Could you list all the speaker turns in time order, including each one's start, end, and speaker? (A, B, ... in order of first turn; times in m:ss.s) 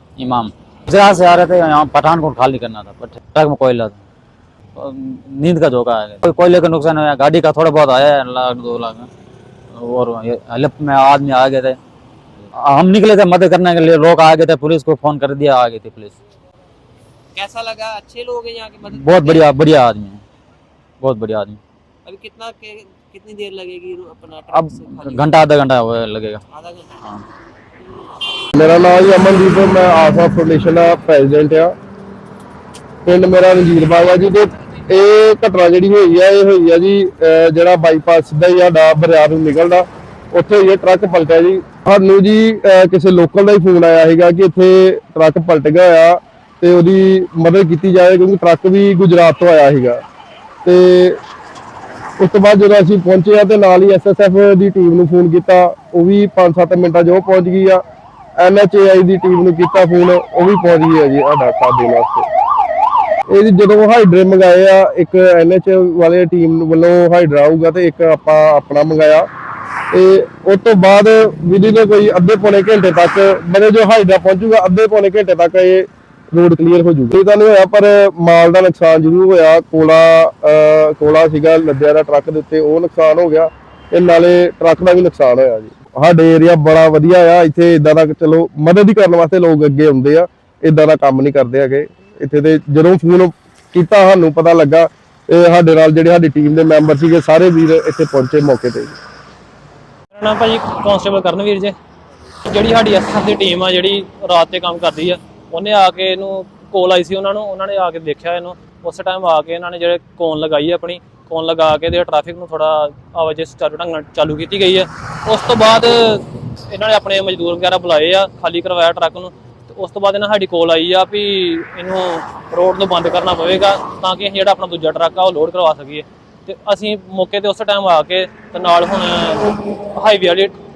0:00.2-0:04.0 A
0:04.8-0:09.1 A
0:09.7-0:11.8 A
0:12.5-0:16.1 A
0:17.3-0:19.6 B
0:18.9-0:20.2 A
0:21.0-0:21.6 A
0:22.0-0:25.4 B
0:24.5-0:26.4 A
0:26.5-0:26.9 B
0:28.6-0:31.7 C
0:33.0-0:50.0 C
0:50.6-0:51.2 C
0:52.2-0:57.8 C
0:58.4-1:02.3 C
1:03.3-1:09.3 C
1:09.9-1:39.0 C
1:40.1-1:41.7 D
1:42.4-2:10.5 D